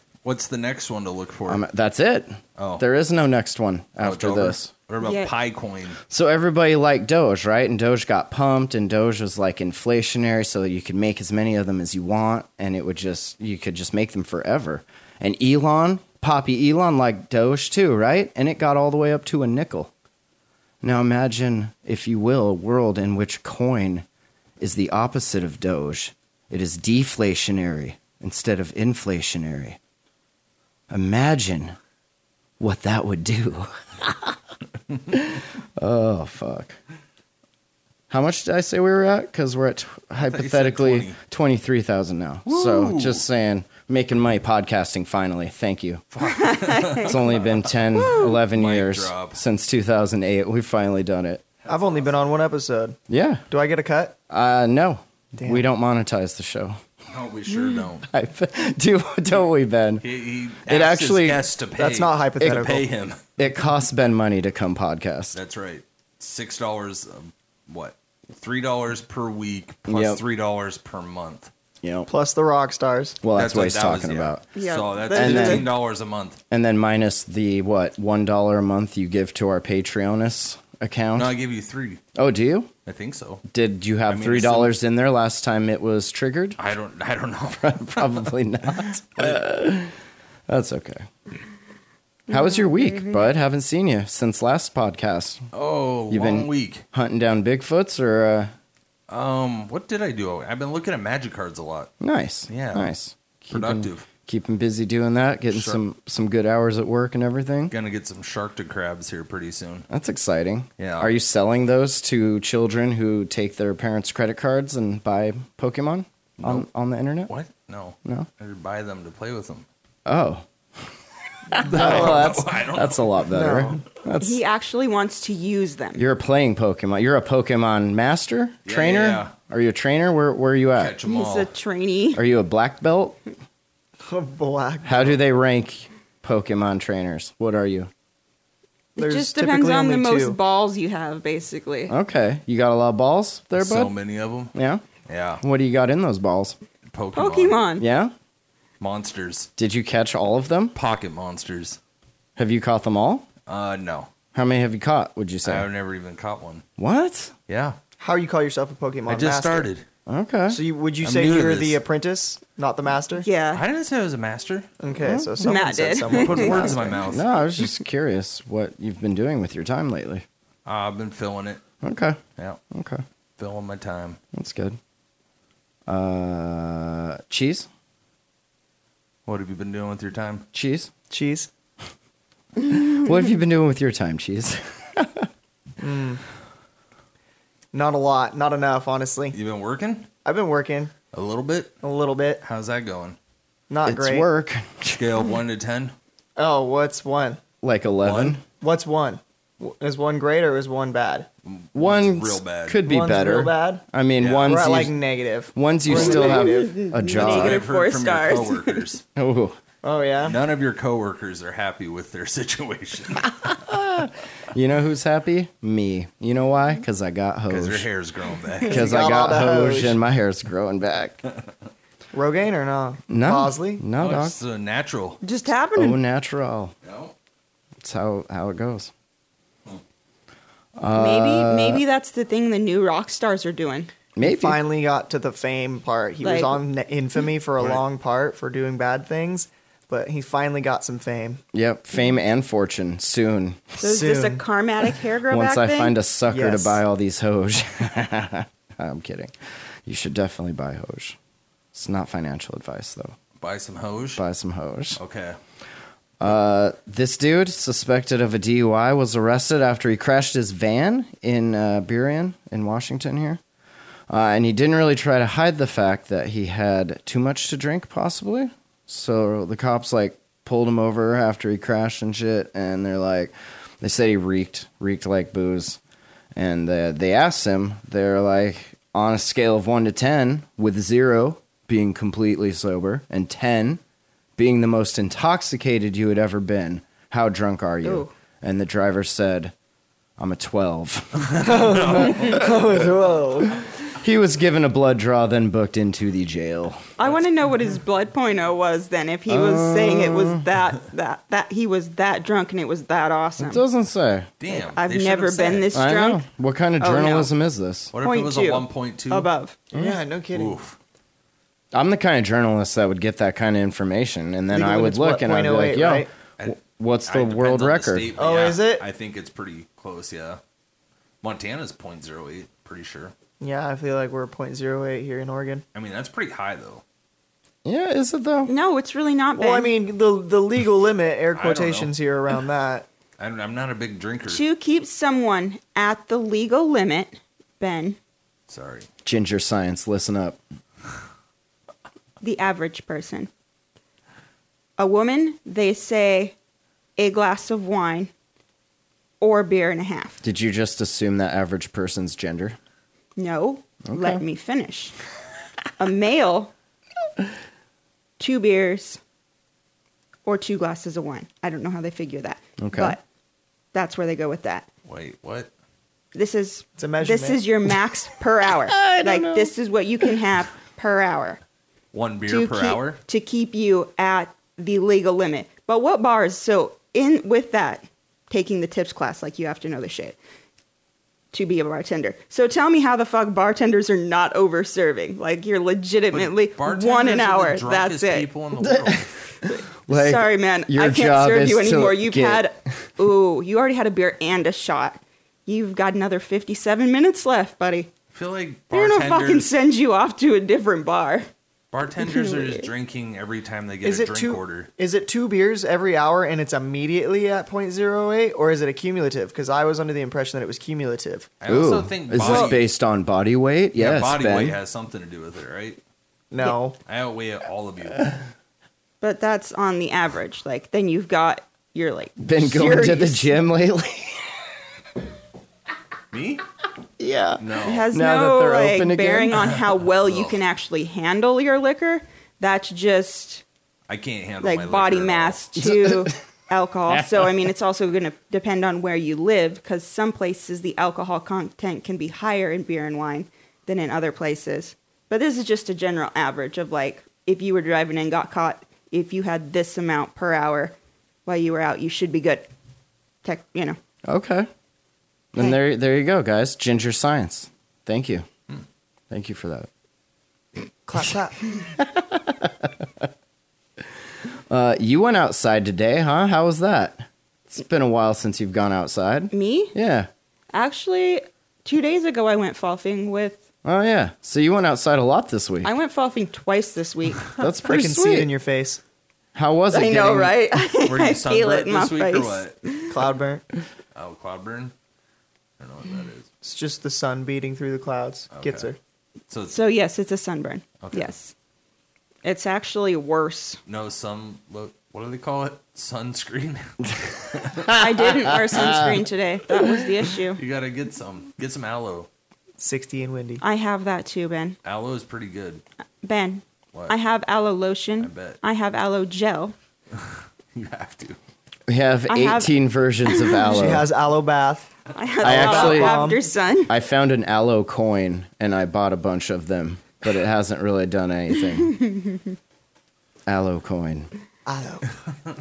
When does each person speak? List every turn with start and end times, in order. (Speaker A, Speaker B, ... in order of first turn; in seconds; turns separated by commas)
Speaker A: 0.2-1.6, Speaker B: 1.5-4.7, Speaker A: 2.6-2.9, Speaker A: 4.0-6.0, Speaker C: 5.0-5.3, Speaker B: 6.1-19.9, Speaker B: 20.8-24.1, Speaker B: 24.6-29.8, Speaker B: 30.9-31.8, Speaker B: 32.6-34.4, Speaker B: 35.1-36.8, Speaker B: 38.1-46.0, Speaker A: 40.2-41.2, Speaker A: 42.5-43.2, Speaker A: 46.1-49.4, Speaker C: 46.2-47.1, Speaker B: 47.0-51.4, Speaker C: 47.9-48.4, Speaker A: 51.6-52.3, Speaker D: 51.7-53.0, Speaker B: 53.1-53.4, Speaker D: 53.5-54.2, Speaker B: 54.3-56.8, Speaker D: 55.4-55.6, Speaker A: 57.1-58.1, Speaker C: 57.5-57.8, Speaker B: 58.1-60.0, Speaker A: 60.0-63.2, Speaker B: 60.7-61.5, Speaker D: 61.8-62.9, Speaker B: 63.4-65.4, Speaker A: 65.3-71.5, Speaker B: 69.9-70.2, Speaker B: 71.8-72.1, Speaker D: 72.1-73.2, Speaker B: 73.2-74.4, Speaker A: 73.4-76.4, Speaker C: 74.6-75.7, Speaker B: 75.1-75.8, Speaker B: 76.5-81.3, Speaker A: 81.2-82.0, Speaker B: 82.2-82.7, Speaker A: 82.9-83.4, Speaker B: 83.5-86.6, Speaker A: 84.1-84.7, Speaker A: 86.6-89.4, Speaker B: 87.6-89.9, Speaker B: 90.5-91.0, Speaker C: 92.3-93.3, Speaker B: 92.3-95.4, Speaker A: 95.5-96.8, Speaker B: 96.1-98.5, Speaker A: 99.1-101.9, Speaker B: 102.0-107.7, Speaker A: 102.5-102.9, Speaker A: 103.5-104.1, Speaker A: 105.5-105.8, Speaker A: 107.7-109.9, Speaker B: 109.9-117.3, Speaker A: 110.8-111.1, Speaker A: 116.4-116.7, Speaker A: 117.3-119.7, Speaker B: 120.1-120.4, Speaker D: 121.5-122.3, Speaker A: 121.5-123.2, Speaker B: 121.6-124.4, Speaker D: 123.3-123.8, Speaker C: 124.2-126.0, Speaker B: 126.0-130.9, Speaker A: 128.7-129.3, Speaker A: 130.8-131.5, Speaker C: 131.0-132.2, Speaker B: 132.2-133.2, Speaker D: 134.1-135.2, Speaker B: 134.8-137.9, Speaker C: 139.0-141.9, Speaker D: 139.0-140.4, Speaker B: 141.9-143.9, Speaker A: 143.6-144.5, Speaker B: 144.5-144.8, Speaker A: 145.1-145.4, Speaker B: 145.4-146.6, Speaker A: 146.9-147.7, Speaker C: 147.2-147.8, Speaker B: 147.8-148.1, Speaker A: 148.8-149.5, Speaker B: 149.6-150.8, Speaker A: 150.7-151.8, Speaker B: 152.4-153.3, Speaker A: 153.5-154.1, Speaker B: 154.3-155.7, Speaker A: 155.4-156.6, Speaker B: 156.8-157.3, Speaker A: 157.5-157.8, Speaker D: 158.0-159.7, Speaker A: 159.1-159.8, Speaker B: 160.1-160.6, Speaker D: 160.5-163.3, Speaker A: 161.0-161.8, Speaker C: 163.2-163.6, Speaker A: 163.5-164.7, Speaker D: 164.8-167.1, Speaker B: 165.0-165.5, Speaker C: 165.4-166.8, Speaker A: 166.1-167.3, Speaker B: 167.0-170.2, Speaker A: 170.7-171.6, Speaker B: 171.8-172.2, Speaker B: 172.7-173.0, Speaker A: 173.4-174.2, Speaker B: 174.3-174.8, Speaker B: 175.9-177.7, Speaker A: 179.3-180.5, Speaker B: 180.5-180.9, Speaker D: 181.1-181.5, Speaker B: 182.7-185.3, Speaker D: 185.8-186.2, Speaker D: 187.7-189.4, Speaker A: 189.3-190.1, Speaker D: 190.2-190.9, Speaker A: 191.1-191.7, Speaker D: 191.8-192.4, Speaker A: 192.4-193.2, Speaker D: 193.7-194.3, Speaker B: 193.8-195.1, Speaker A: 194.9-195.9, Speaker D: 196.4-197.4, Speaker B: 197.6-198.4, Speaker A: 198.0-198.4, Speaker D: 198.6-201.3, Speaker A: 201.4-202.8, Speaker B: 201.8-204.9, Speaker D: 202.9-203.8, Speaker A: 204.2-204.6, Speaker D: 204.4-206.8, Speaker B: 205.5-207.6, Speaker C: 205.9-208.8, Speaker A: 207.1-209.0, Speaker B: 209.2-209.6, Speaker D: 209.8-210.4, Speaker A: 210.2-213.3, Speaker B: 213.5-217.9, Speaker A: 217.5-218.9, Speaker D: 218.6-220.0, Speaker B: 218.7-221.2, Speaker D: 222.1-223.8, Speaker B: 223.1-224.4, Speaker A: 224.0-225.2, Speaker C: 225.2-226.0, Speaker B: 225.8-226.7, Speaker A: 226.8-227.1, Speaker B: 227.8-228.9, Speaker B: 230.8-231.8, Speaker C: 231.0-233.9, Speaker B: 234.2-234.6, Speaker D: 234.2-241.4, Speaker C: 236.2-236.6, Speaker B: 241.5-243.8, Speaker C: 243.8-245.9, Speaker D: 243.8-244.4, Speaker B: 245.3-249.3, Speaker D: 246.3-246.8, Speaker B: 249.9-251.2, Speaker B: 251.7-253.1, Speaker A: 253.4-254.2, Speaker B: 254.2-255.0, Speaker A: 255.0-255.4, Speaker B: 256.2-263.4, Speaker B: 264.1-275.8, Speaker B: 276.4-283.8, Speaker B: 284.4-289.5, Speaker C: 287.8-288.1, Speaker B: 290.2-292.4, Speaker A: 291.3-292.6, Speaker D: 291.4-293.6, Speaker B: 294.0-296.8, Speaker C: 297.0-303.6, Speaker B: 299.3-300.4, Speaker B: 303.4-304.3, Speaker A: 304.4-305.7, Speaker C: 304.5-306.2, Speaker B: 305.7-307.9, Speaker C: 306.8-307.3, Speaker A: 307.9-309.3, Speaker C: 308.0-309.6, Speaker D: 309.7-310.6, Speaker A: 310.3-310.8, Speaker B: 311.7-318.1, Speaker D: 314.5-316.1, Speaker A: 316.4-320.4, Speaker D: 318.2-318.9, Speaker A: 321.2-323.1, Speaker D: 323.4-325.6, Speaker A: 325.7-326.8, Speaker B: 327.6-328.5, Speaker C: 328.4-329.7, Speaker D: 329.4-332.9, Speaker A: 331.3-331.9, Speaker A: 333.2-334.4, Speaker C: 334.3-338.0, Speaker A: 338.5-338.9, Speaker B: 339.1-340.4, Speaker C: 342.2-343.3, Speaker C: 344.8-346.4, Speaker C: 347.0-348.1, Speaker C: 349.2-350.2, Speaker B: 350.2-352.6, Speaker C: 353.2-354.9, Speaker B: 353.9-354.2, Speaker C: 355.8-356.5, Speaker C: 358.2-359.0, Speaker C: 360.3-363.0, Speaker B: 362.6-363.0, Speaker C: 363.7-364.7, Speaker A: 364.9-365.5, Speaker C: 366.1-371.4, Speaker D: 366.8-367.4, Speaker B: 368.7-369.5, Speaker A: 371.9-373.0, Speaker C: 372.3-380.2, Speaker C: 381.3-388.3, Speaker A: 386.1-389.2, Speaker B: 388.7-392.5, Speaker C: 389.9-397.9, Speaker A: 398.1-399.5, Speaker C: 398.7-401.3, Speaker A: 401.7-404.7, Speaker C: 402.0-402.7, Speaker D: 403.8-411.3, Speaker A: 411.4-412.6, Speaker B: 411.5-414.6, Speaker D: 412.2-412.5, Speaker A: 413.8-415.8, Speaker D: 416.3-416.8, Speaker A: 416.9-418.1, Speaker C: 419.0-423.3, Speaker B: 422.2-424.2, Speaker A: 426.1-426.4, Speaker B: 427.0-429.5, Speaker A: 427.4-427.9, Speaker C: 427.6-433.4, Speaker A: 430.0-430.4, Speaker A: 433.9-435.4, Speaker C: 434.4-450.8, Speaker B: 435.6-436.1, Speaker B: 436.9-437.2, Speaker C: 451.3-452.5, Speaker C: 453.2-453.8, Speaker B: 454.1-454.5, Speaker B: 455.3-458.3, Speaker B: 459.1-459.7, Speaker D: 460.9-461.4, Speaker B: 461.8-462.7, Speaker B: 464.5-470.1, Speaker C: 469.3-469.7, Speaker C: 470.5-473.4, Speaker B: 473.6-475.7, Speaker C: 475.6-477.4, Speaker B: 477.4-478.3, Speaker D: 477.6-478.8, Speaker B: 479.4-480.3, Speaker C: 479.7-482.9, Speaker A: 480.8-482.6, Speaker D: 482.9-483.4, Speaker A: 483.9-484.7, Speaker A: 485.6-486.3, Speaker D: 486.4-488.8, Speaker A: 488.3-488.7, Speaker A: 489.3-489.6, Speaker C: 489.5-491.3, Speaker A: 490.8-491.1, Speaker C: 492.2-493.6, Speaker A: 493.7-497.7, Speaker C: 497.7-500.4, Speaker B: 498.6-498.9, Speaker A: 500.4-502.1, Speaker D: 502.6-503.4, Speaker C: 503.4-504.6, Speaker A: 504.6-505.6, Speaker C: 506.0-509.6, Speaker A: 508.0-508.4, Speaker A: 510.0-511.2, Speaker B: 511.7-513.9, Speaker C: 512.1-512.5, Speaker C: 513.1-513.7, Speaker D: 513.5-516.3, Speaker C: 515.0-516.7, Speaker B: 515.2-516.0, Speaker B: 516.7-521.8, Speaker B: 523.3-524.1, Speaker D: 524.5-524.8